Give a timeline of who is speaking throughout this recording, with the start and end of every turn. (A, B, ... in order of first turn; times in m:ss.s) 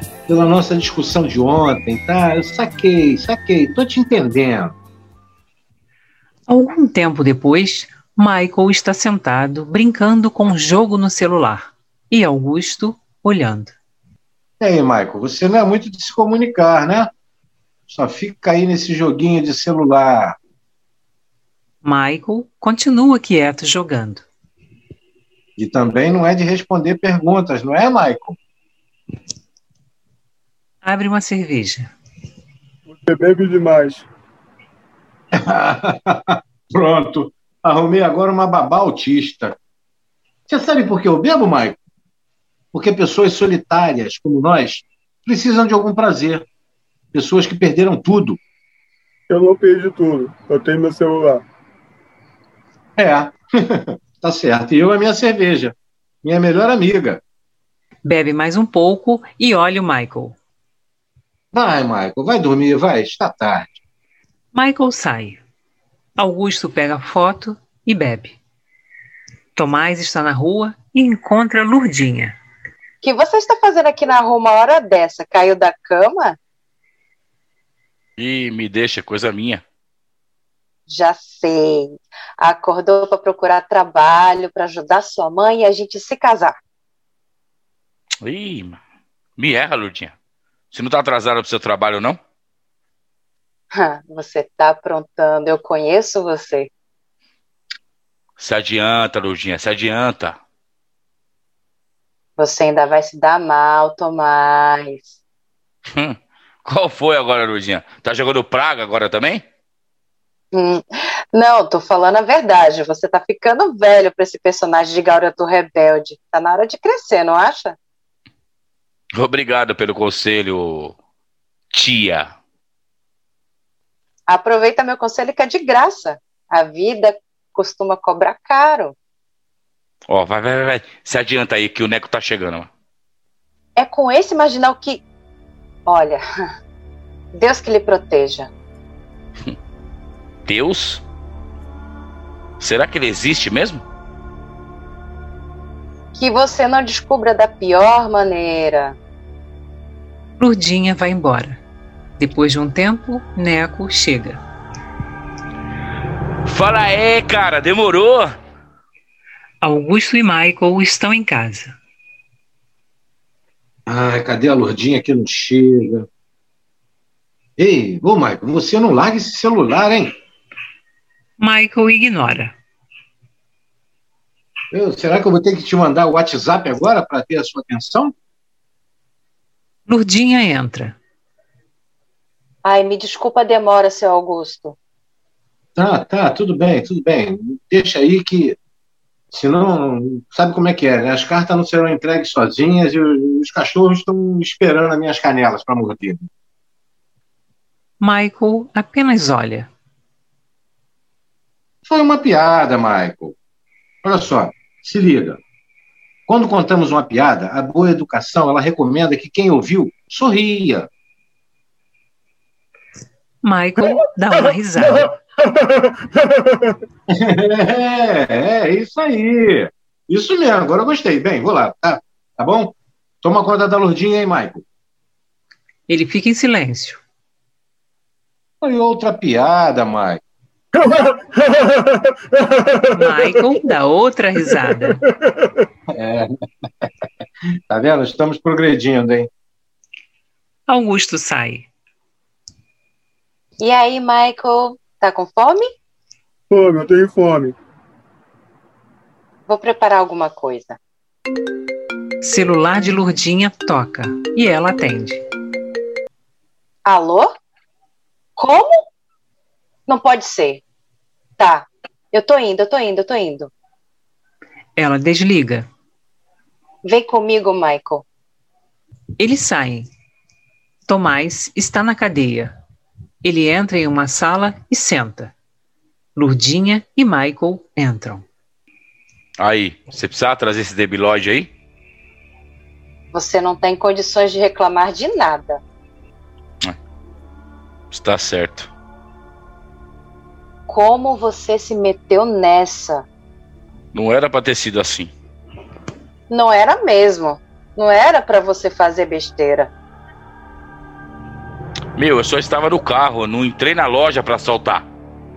0:00.3-0:04.7 A
0:06.5-0:13.7 B
0:14.6-0:17.1 A
0:17.9-0:20.4 A
0:21.8-0:24.2 B
0:25.6-0:28.4 A
0:30.8-0:31.9 B
0:32.9-0:34.1 C
0:35.3-0:39.6 A
0:40.5-0:41.8 A
0:42.7-0:46.4 A
0:47.1-0:48.4 A
0:49.3-0:51.4 C
0:53.0-0:57.2 A
0:58.0-1:00.4 B
1:01.5-1:03.8 A
1:04.5-1:05.4 B
1:06.2-1:08.4 B
1:09.5-1:12.4 B
1:13.0-1:16.4 D
1:18.2-1:19.6 E
1:20.9-1:26.6 D
1:28.2-1:28.8 E
1:29.4-1:30.1 E
1:30.7-1:32.2 E
1:33.7-1:36.7 D
1:38.4-1:40.4 E
1:42.4-1:45.1 D
1:45.9-1:49.4 E
1:50.5-1:57.8 D
1:59.1-2:01.0 E
2:01.7-2:02.3 E
2:04.3-2:08.9 D
2:10.1-2:12.7 E
2:13.8-2:15.0 D
2:15.8-2:16.2 D
2:17.3-2:18.5 D
2:20.4-2:21.0 E
2:22.6-2:23.8 E
2:26.1-2:29.0 D
2:30.4-2:31.6 B
2:32.2-2:34.4 B
2:36.4-2:38.4 E
2:39.6-2:41.8 B
2:43.9-2:46.1 A
2:47.6-2:50.2 A
2:51.4-2:52.5 B
2:54.7-2:58.1 A
2:59.9-3:01.0 B
3:02.6-3:04.8 D
3:05.8-3:08.6 A
3:09.3-3:16.3 A
3:18.0-3:19.7 B
3:21.8-3:23.4 A
3:24.0-3:25.4 A
3:26.3-3:30.9 A
3:33.4-3:35.1 B
3:33.8-3:36.8 C
3:37.1-3:44.6 A
3:45.9-3:47.0 B
3:48.6-3:50.2 A
3:50.7-3:53.7 C
3:53.0-3:55.0 B
3:54.4-3:55.6 C
3:55.9-3:56.3 A
3:57.7-3:59.3 A
4:00.7-4:01.7 B
4:03.6-4:05.7 D
4:06.5-4:07.5 C
4:09.5-4:10.8 D
4:12.2-4:15.2 B
4:16.8-4:17.3 D
4:18.4-4:18.8 D
4:19.9-4:20.6 D
4:21.4-4:23.5 D
4:24.8-4:25.7 B
4:26.8-4:28.0 D
4:29.2-4:29.9 B
4:30.8-4:32.5 B
4:33.2-4:35.3 B
4:36.2-4:38.2 B
4:39.4-4:41.5 E
4:43.1-4:45.6 D
4:47.9-4:48.7 E
4:50.7-4:53.0 D
4:53.9-4:55.1 E
4:56.3-4:59.7 D
5:02.0-5:04.8 E